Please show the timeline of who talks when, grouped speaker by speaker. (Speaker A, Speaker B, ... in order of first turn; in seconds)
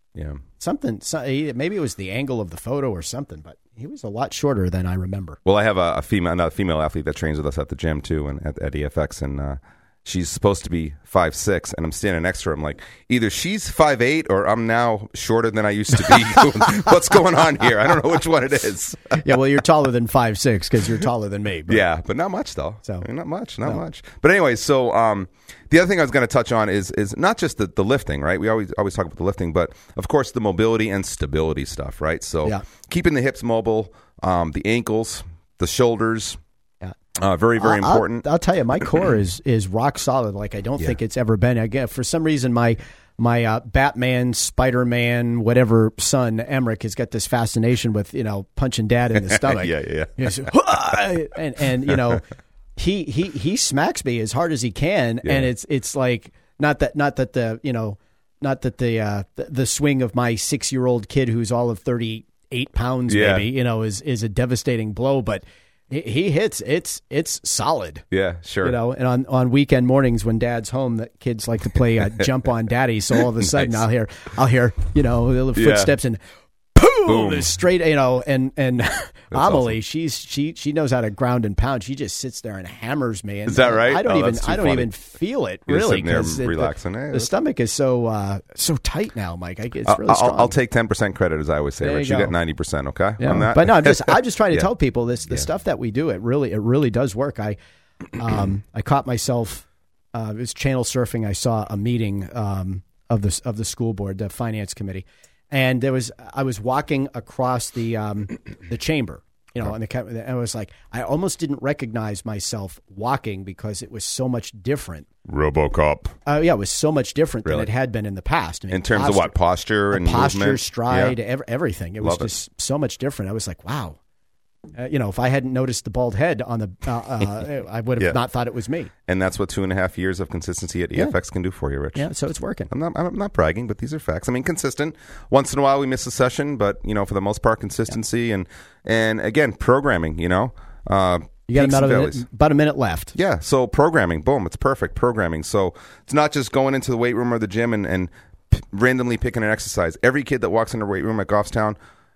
Speaker A: 0.1-0.4, 5.5-19.2, 21.7-36.4, 37.2-38.2, 49.3-50.5, 55.2-55.5, 63.1-63.5, 68.1-68.8, 73.5-73.8, 75.6-76.0, 77.1-77.5, 79.3-79.8, 83.5-84.9, 85.7-87.3, 89.9-94.7, 115.3-116.1, 118.7-121.2, 122.0-122.3, 129.1-132.1, 132.7-142.2, 143.2-151.8
Speaker B: 0.6-5.4, 19.2-21.9, 37.6-52.2, 52.8-68.0, 68.6-76.2, 76.8-90.5, 91.8-92.3, 93.2-97.6, 98.2-115.1, 116.3-119.3, 119.9-124.0, 124.8-128.9, 131.9-132.7, 141.5-143.1